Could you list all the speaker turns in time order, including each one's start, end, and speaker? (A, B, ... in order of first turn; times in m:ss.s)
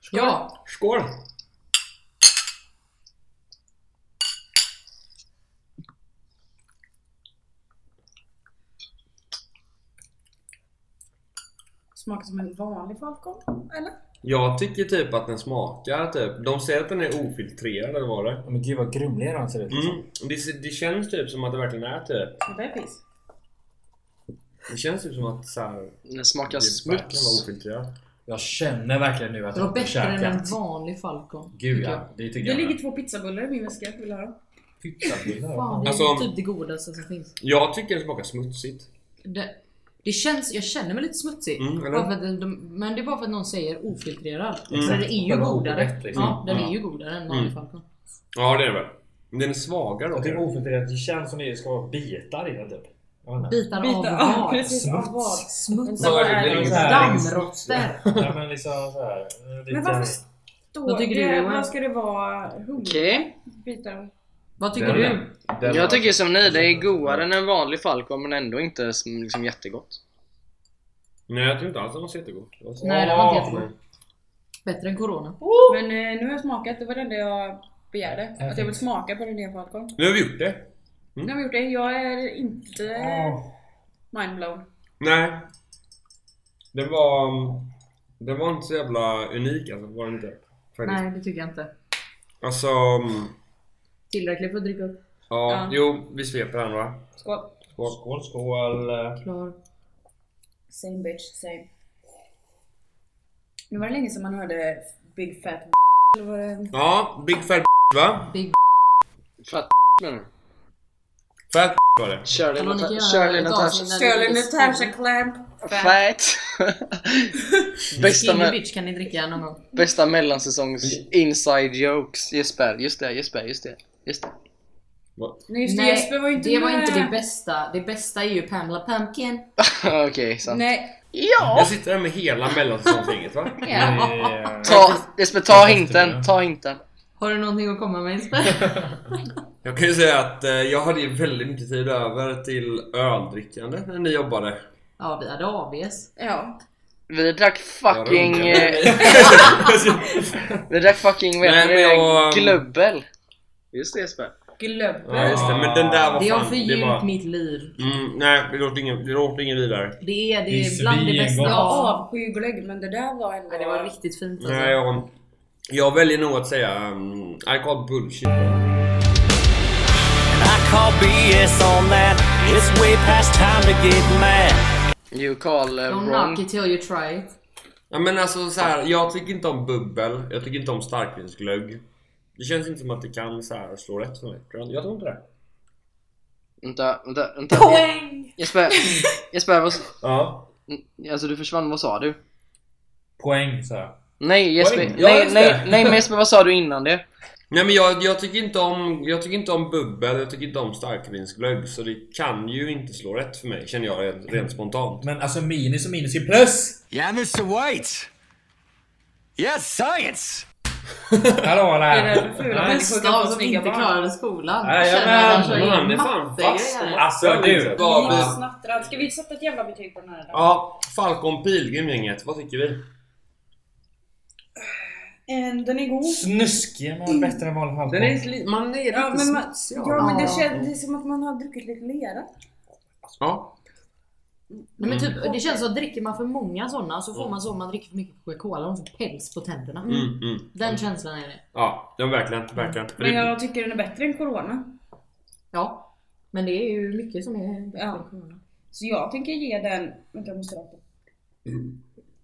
0:00.1-0:00.5 A
0:00.6-0:01.2 B
0:11.9-0:14.0 C
0:14.2-0:18.5 B
0:18.4-0:20.0 D
0:19.7-0:22.4 B
0:22.4-0:23.0 C
0:24.7-0:27.9 B
0:26.1-0:27.5 E
0:28.3-0:30.6 D
0:29.6-0:32.1 A
0:31.6-0:32.8 D
0:32.4-0:34.4 C
0:34.8-0:36.1 D
0:35.5-0:37.3 A
0:35.8-0:36.3 B
0:37.4-0:38.9 B
0:39.2-0:47.8 A
0:41.6-0:42.1 B
0:44.7-0:45.0 B
0:44.7-0:46.4 D
0:46.1-0:46.8 B
0:47.3-0:47.6 B
0:48.4-0:50.5 B
0:50.1-0:53.6 D
0:53.5-0:54.7 A
0:53.8-0:57.2 C
0:54.3-0:55.4 D
0:55.4-0:58.0 A
0:56.0-0:58.3 B
0:56.3-1:00.2 D
0:59.7-1:00.2 C
1:00.7-1:04.1 C
1:00.9-1:01.7 A
1:02.8-1:03.2 E
1:04.6-1:05.3 A
1:04.7-1:07.3 B
1:04.8-1:05.2 D
1:05.6-1:10.0 E
1:11.3-1:13.7 B
1:12.8-1:13.7 A
1:12.8-1:13.6 D
1:14.6-1:15.7 A
1:15.7-1:19.9 C
1:18.4-1:18.8 D
1:20.0-1:21.4 B
1:21.2-1:23.4 C
1:23.0-1:23.5 D
1:24.1-1:24.6 C
1:25.0-1:25.5 B
1:26.7-1:27.7 B
1:28.2-1:31.0 B
1:30.8-1:31.7 A
1:32.4-1:33.4 B
1:34.1-1:35.0 A
1:35.3-1:37.1 B
1:35.5-1:35.8 C
1:37.2-1:37.6 C
1:37.7-1:38.0 B
1:37.9-1:39.2 D
1:39.2-1:39.6 A
1:40.7-1:41.7 C
1:43.7-1:46.7 C
1:46.7-1:48.3 B
1:48.3-1:48.6 A
1:49.4-1:50.3 E
1:51.5-1:52.4 B
1:52.3-1:53.9 E
1:52.5-1:55.0 A
1:53.8-1:56.0 C
1:55.6-1:57.3 E
1:57.9-1:58.6 E
1:58.0-1:59.8 A
1:59.8-2:04.3 E
2:05.2-2:05.4 B
2:05.5-2:07.1 C
2:05.6-2:09.5 A
2:09.6-2:11.7 E
2:10.4-2:11.0 C
2:11.4-2:14.1 B
2:13.6-2:15.0 A
2:13.7-2:14.9 D
2:14.6-2:16.8 E
2:15.5-2:16.3 D
2:17.2-2:18.7 A
2:18.5-2:18.9 D
2:19.6-2:24.6 B
2:25.0-2:26.1 A
2:26.2-2:26.6 C
2:27.1-2:29.3 E
2:27.9-2:30.6 B
2:28.9-2:29.3 C
2:30.7-2:33.0 E
2:31.4-2:32.6 B
2:33.7-2:34.4 E
2:34.6-2:35.7 C
2:35.0-2:37.1 B
2:35.2-2:36.3 D
2:36.2-2:37.8 A
2:37.8-2:40.0 B
2:40.0-2:42.0 A
2:40.5-2:41.8 D
2:41.4-2:43.9 C
2:43.5-2:44.8 A
2:44.4-2:45.1 B
2:45.7-2:48.6 B
2:50.3-2:54.6 F
2:55.1-2:56.4 E
2:55.9-2:57.4 A
2:57.9-3:01.8 B
3:02.4-3:05.2 B
3:06.6-3:09.9 E
3:07.5-3:08.4 A
3:10.0-3:10.5 B
3:10.7-3:12.2 E
3:13.2-3:14.0 D
3:14.2-3:17.0 E
3:14.6-3:16.1 B
3:17.5-3:25.1 B
3:25.0-3:26.8 D
3:26.9-3:28.1 F
3:29.4-3:30.5 F
3:31.1-3:31.5 B
3:31.4-3:32.8 D
3:31.9-3:34.0 C
3:32.6-3:37.1 A
3:34.6-3:35.8 D
3:35.0-3:38.4 B
3:37.0-3:38.3 D
3:37.7-3:40.5 C
3:40.3-3:42.9 B
3:45.3-3:46.3 C
3:46.0-3:48.2 D
3:47.9-3:50.7 B
3:48.9-3:52.3 C
3:50.0-3:50.5 A
3:53.2-3:53.6 B
3:54.5-3:55.6 C
3:54.8-4:01.4 A
3:54.8-3:55.2 B
3:59.8-4:00.2 C
3:59.9-4:00.9 B
4:01.5-4:03.4 B
4:03.0-4:04.8 C
4:05.5-4:08.4 A
4:07.8-4:08.1 C
4:08.7-4:10.8 C